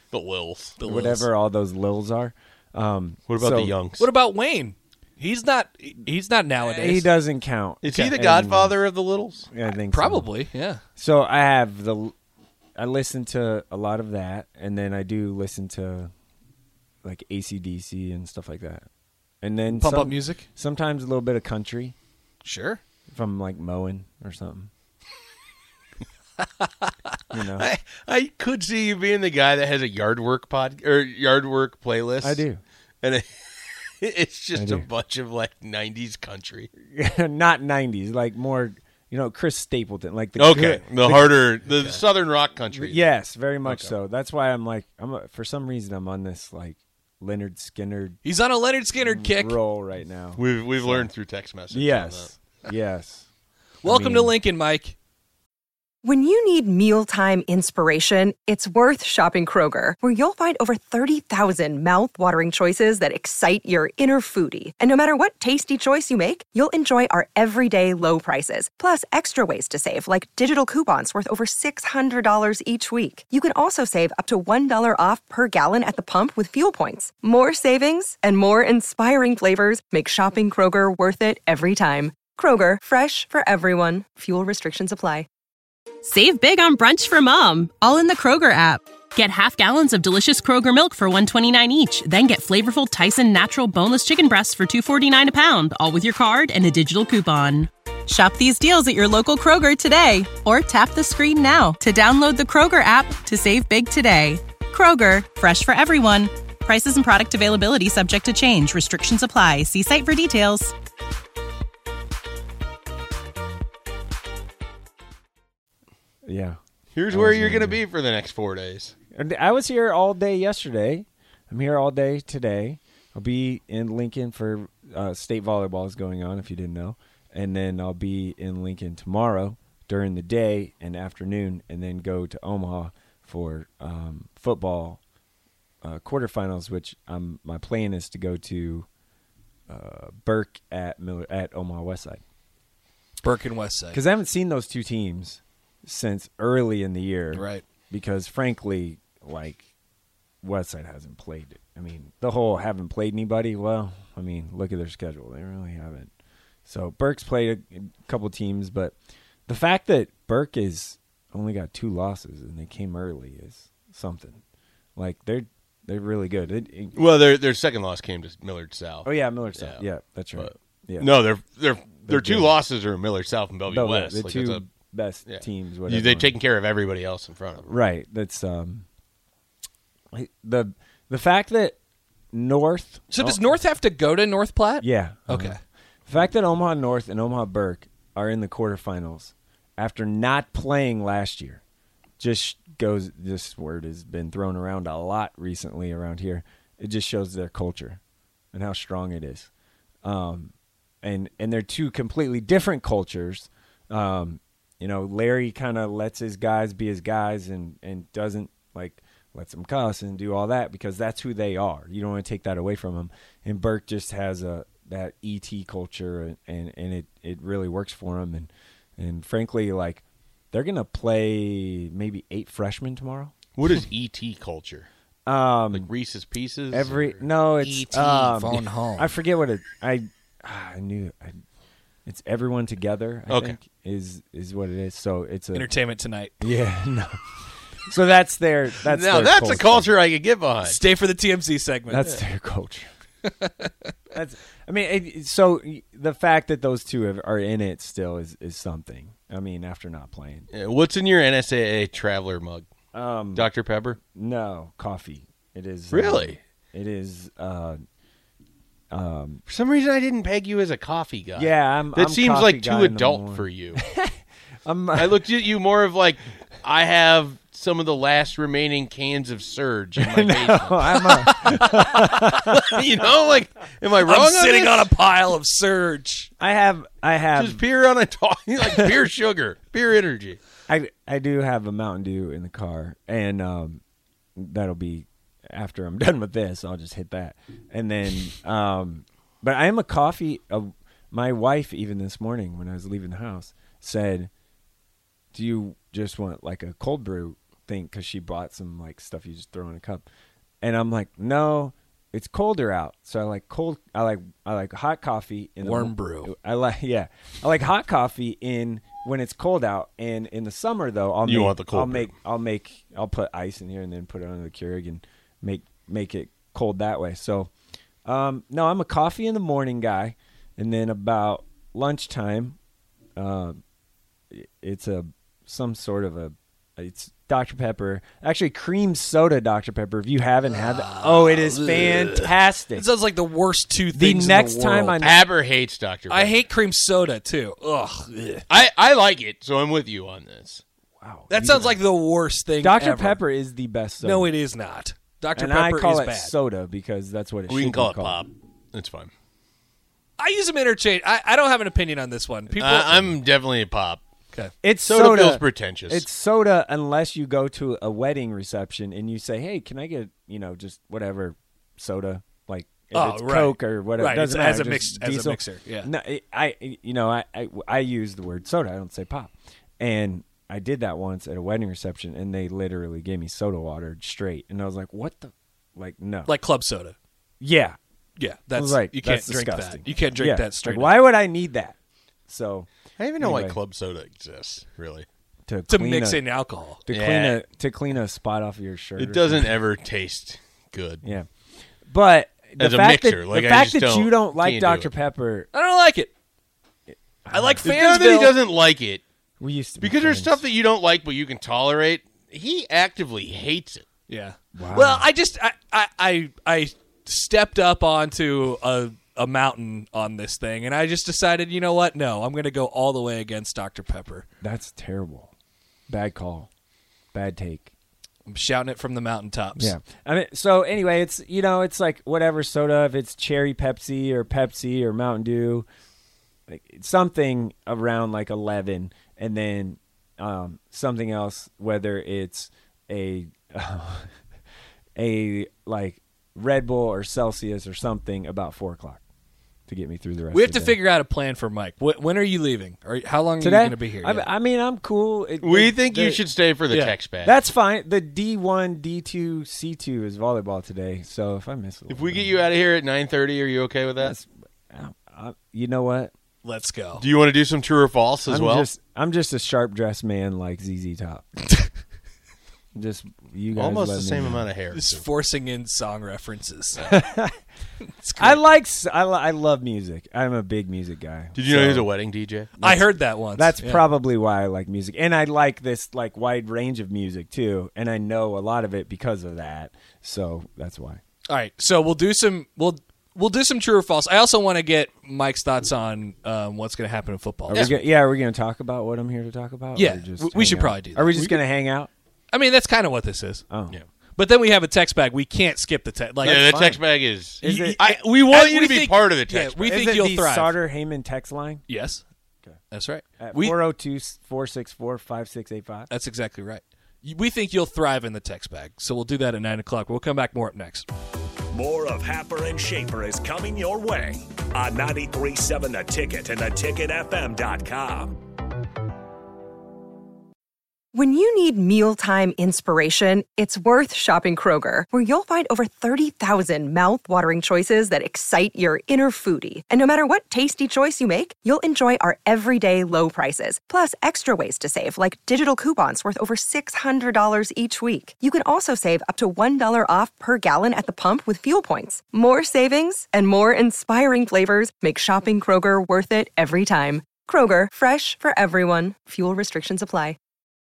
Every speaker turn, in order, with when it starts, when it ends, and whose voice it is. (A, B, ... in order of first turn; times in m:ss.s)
0:00.1-0:00.8 A
0:00.8-0:01.3 B
0:00.8-0:03.7 C
0:03.3-0:04.1 A
0:04.0-0:07.1 B
0:06.7-0:08.8 C
0:07.8-0:09.5 A
0:09.5-0:10.3 C
0:09.8-0:10.8 B
0:11.0-0:12.1 C
0:12.8-0:16.1 C
0:17.0-0:18.9 C
0:19.4-0:22.0 C
0:19.8-0:20.4 B
0:22.4-0:22.8 B
0:23.1-0:24.7 C
0:27.3-0:27.7 C
0:27.4-0:32.5 A
0:32.2-0:32.6 C
0:33.0-0:36.7 A
0:34.5-0:34.9 C
0:36.9-0:42.0 C
0:40.4-0:43.1 A
0:42.7-0:48.2 C
0:43.6-0:44.0 A
0:48.2-0:49.6 B
0:49.0-0:51.1 C
0:50.4-0:52.4 A
0:51.7-0:53.3 C
0:53.8-0:54.4 C
0:53.8-0:55.0 B
0:56.0-1:25.3 D
1:26.0-1:50.7 E
1:56.2-1:56.6 C
1:57.0-1:58.9 A
1:57.1-1:57.8 C
1:59.2-2:15.0 C
2:15.8-2:18.9 C
2:19.7-2:22.2 C
2:23.2-2:24.0 B
2:23.9-2:29.6 C
2:27.3-2:27.6 B
2:30.4-2:36.1 C
2:36.7-2:39.0 C
2:39.5-2:44.4 C
2:45.0-2:47.0 C
2:47.0-2:54.7 A
2:49.0-2:51.2 C
2:52.0-2:52.6 C
2:53.7-2:56.4 C
2:55.3-2:57.7 A
2:57.6-2:58.8 C
3:00.1-3:01.8 C
3:02.3-3:03.6 C
3:03.1-3:05.6 B
3:04.8-3:11.6 C
3:12.2-3:18.0 C
3:18.5-3:19.5 C
3:20.0-3:43.3 C
3:43.6-3:44.9 A
3:45.3-3:45.9 C
3:45.7-3:48.2 A
3:46.7-3:51.4 C
3:48.1-3:49.1 B
3:52.1-3:55.7 C
3:53.3-3:53.6 A
3:55.5-3:56.4 B
3:56.4-3:57.3 C
3:57.9-4:00.0 C
3:58.8-4:00.8 A
4:00.6-4:02.1 B
4:01.9-4:02.9 C
4:04.1-4:10.5 C
4:10.5-4:12.7 A
4:12.9-4:13.5 C
4:13.3-4:14.0 A
4:14.1-4:17.8 C
4:15.9-4:16.4 A
4:18.9-4:19.4 C
4:19.5-4:23.8 A
4:21.4-4:24.2 C
4:24.7-4:25.2 C
4:24.9-4:31.6 A
4:30.0-4:32.4 C
4:32.5-4:34.9 A
4:34.0-4:36.3 B
4:36.4-4:37.6 C
4:37.4-4:40.4 A
4:40.7-4:43.8 C
4:44.4-4:54.3 C
4:55.3-5:00.1 C
5:00.6-5:17.5 C
5:05.6-5:06.3 B
5:11.2-5:12.1 A
5:18.1-5:22.6 C
5:23.2-5:23.6 C
5:24.3-5:32.9 C
5:30.6-5:34.7 B
5:33.9-5:35.3 C
5:35.0-5:36.4 A
5:36.1-5:38.4 B
5:38.5-5:40.6 A
5:41.0-5:41.8 C
5:41.3-5:43.1 B
5:42.6-5:44.3 C
5:44.0-5:46.3 B
5:45.3-5:48.2 C
5:47.5-5:49.1 A
5:50.2-5:53.2 B
5:52.5-5:54.0 A
5:54.6-6:16.3 C
5:54.8-5:56.1 A
6:02.9-6:05.9 B
6:16.3-6:17.0 B
6:17.4-6:17.8 C
6:18.2-6:20.9 B
6:18.5-6:21.8 C
6:22.3-6:23.6 C
6:23.0-6:25.1 A
6:25.5-6:26.3 C
6:25.7-6:26.8 B
6:26.8-6:29.6 C
6:26.9-6:27.4 A
6:29.0-6:31.0 A
6:31.9-6:35.5 C
6:32.6-6:34.9 A
6:35.5-6:36.1 B
6:36.9-6:37.7 C
6:37.3-6:38.4 B
6:37.6-6:39.0 A
6:39.4-6:40.4 C
6:39.8-6:43.9 A
6:44.1-6:44.4 B
6:44.5-6:45.1 C
6:44.9-6:54.3 B
6:54.4-6:55.3 C
6:55.9-6:56.5 C
6:57.1-6:57.7 C
6:58.3-6:59.6 B
6:59.6-7:05.7 C
7:06.5-7:14.1 C
7:15.0-7:19.0 C
7:19.7-7:20.8 C
7:20.3-7:24.3 B
7:23.4-7:26.2 C
7:25.4-7:27.4 A
7:27.2-7:32.4 C
7:31.9-7:34.2 A
7:34.0-7:36.1 C
7:36.4-7:37.0 B
7:37.0-7:38.7 A
7:38.3-7:41.7 C
7:42.8-7:44.5 C
7:43.6-7:45.1 A
7:44.7-7:46.8 B
7:46.8-7:47.4 C
7:48.0-7:48.4 B
7:48.2-7:51.9 C
7:51.3-7:52.6 A
7:52.6-8:01.0 C
7:52.6-7:53.8 B
8:01.3-8:07.6 B
8:07.5-8:11.9 C
8:07.5-8:07.8 A
8:09.8-8:11.2 B
8:12.3-8:13.4 B
8:13.5-8:13.8 C
8:14.2-8:16.3 B
8:16.2-8:16.8 C
8:16.2-8:19.9 A
8:17.4-8:17.8 C
8:18.2-8:20.5 B
8:19.6-8:21.7 C
8:21.7-8:22.0 B
8:22.7-8:23.6 B
8:23.2-8:25.9 C
8:25.9-8:30.9 B
8:31.5-8:38.2 F
8:40.9-9:10.2 D